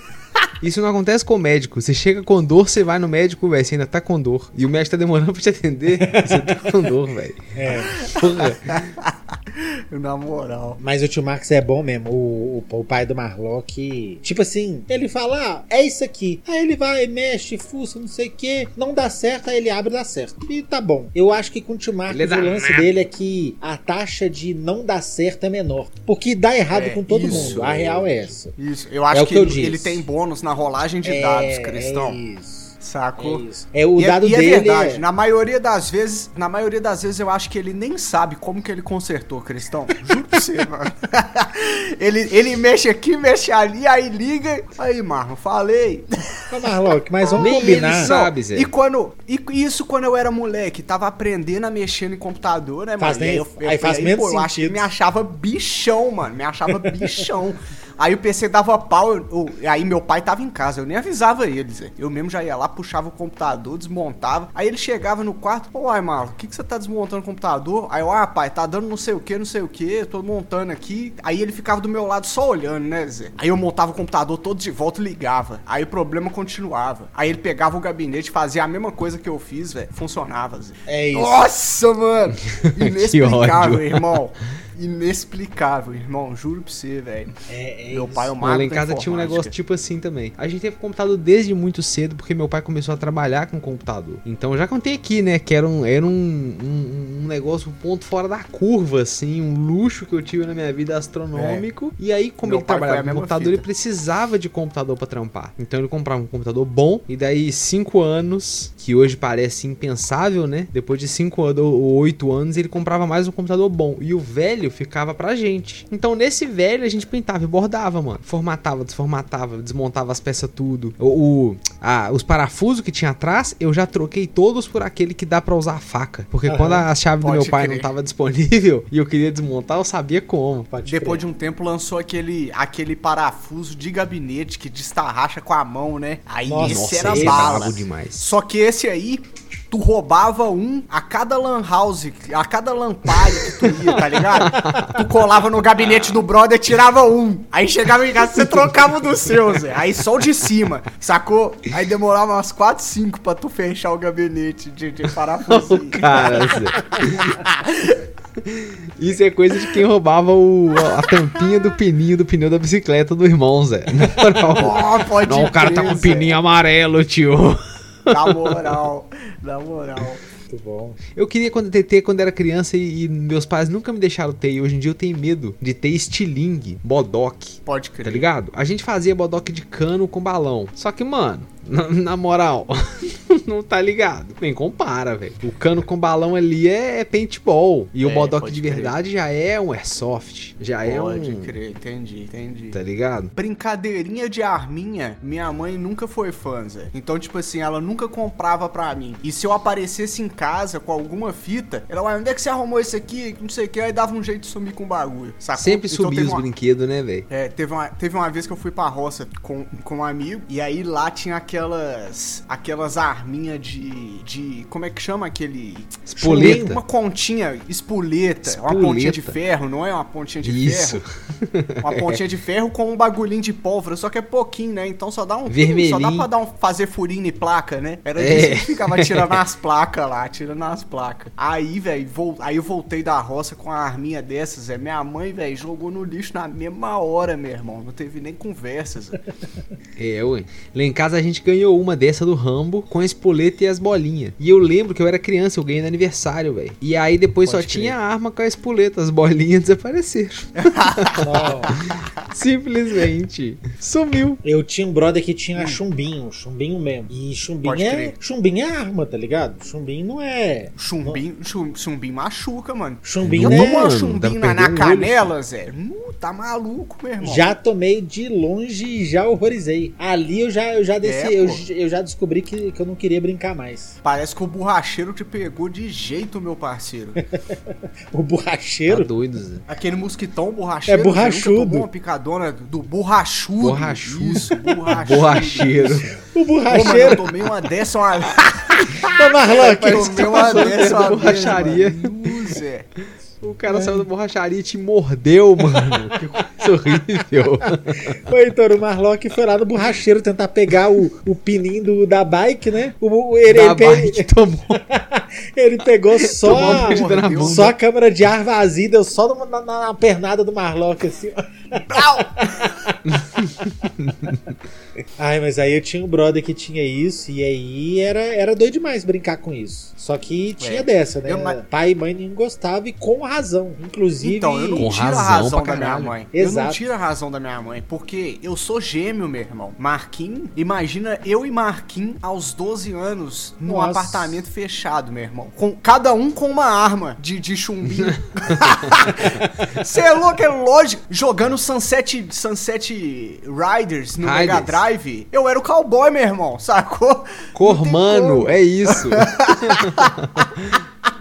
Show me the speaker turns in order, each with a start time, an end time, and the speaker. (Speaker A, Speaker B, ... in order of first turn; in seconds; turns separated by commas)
Speaker A: 0.6-8.8, Speaker B: 6.1-6.7, Speaker B: 7.5-8.0, Speaker C: 7.9-10.8, Speaker B: 10.8-28.5, Speaker A: 22.1-22.9, Speaker C: 26.7-32.2, Speaker A: 27.3-28.0, Speaker B: 29.1-30.0, Speaker B: 31.0-35.0, Speaker C: 32.8-33.4, Speaker C: 34.0-46.7, Speaker B: 46.5-48.1, Speaker C: 47.2-87.3, Speaker A: 47.4-48.7, Speaker B: 53.0-54.9, Speaker B: 56.8-57.1, Speaker B: 80.9-81.4, Speaker A: 82.8-84.2, Speaker B: 87.5-88.3, Speaker C: 87.9-89.5, Speaker A: 88.4-130.7, Speaker C: 101.3-101.7, Speaker C: 102.4-103.6, Speaker B: 126.5-126.8, Speaker C: 127.2-127.9, Speaker B: 130.7-131.2, Speaker C: 130.9-158.0, Speaker B: 136.5-137.8, Speaker A: 136.6-138.3, Speaker A: 143.6-145.1, Speaker B: 144.5-144.9, Speaker A: 148.3-148.6, Speaker A: 155.5-157.4, Speaker A: 158.4-168.8, Speaker C: 164.6-166.3, Speaker C: 168.1-170.2, Speaker B: 170.5-171.0, Speaker A: 171.1-191.6, Speaker C: 177.7-178.3, Speaker C: 188.0-188.9, Speaker C: 190.8-192.8, Speaker A: 192.7-193.3, Speaker C: 193.3-206.4, Speaker A: 205.5-207.2, Speaker C: 207.3-221.0, Speaker A: 216.1-216.8, Speaker B: 216.2-216.7, Speaker A: 218.4-219.4, Speaker A: 220.4-222.2, Speaker C: 221.8-239.2, Speaker A: 225.5-226.3, Speaker A: 228.2-229.4, Speaker A: 240.0-254.4, Speaker C: 247.4-247.9, Speaker C: 250.6-252.3, Speaker B: 251.2-251.7, Speaker B: 254.4-261.2, Speaker C: 257.6-258.1, Speaker C: 260.8-267.5, Speaker B: 263.0-263.9, Speaker A: 263.2-265.3, Speaker B: 267.2-273.9, Speaker C: 271.0-271.6, Speaker C: 274.0-277.2, Speaker B: 278.1-279.1, Speaker A: 278.9-279.6, Speaker C: 279.7-286.1, Speaker B: 280.9-281.9, Speaker A: 283.6-286.1, Speaker B: 285.6-287.2, Speaker C: 286.7-292.9, Speaker A: 286.9-287.1, Speaker B: 288.9-291.4, Speaker A: 289.8-292.6, Speaker A: 293.4-298.2, Speaker B: 293.7-294.1, Speaker B: 297.9-313.0, Speaker A: 303.5-304.8, Speaker A: 306.2-307.7, Speaker C: 306.4-307.7, Speaker C: 311.9-312.3, Speaker A: 313.1-314.4, Speaker B: 315.2-324.9, Speaker C: 320.6-321.6, Speaker C: 324.2-350.1, Speaker A: 324.8-326.1, Speaker B: 326.3-326.8, Speaker B: 333.6-334.4, Speaker A: 344.2-344.8, Speaker A: 347.5-350.8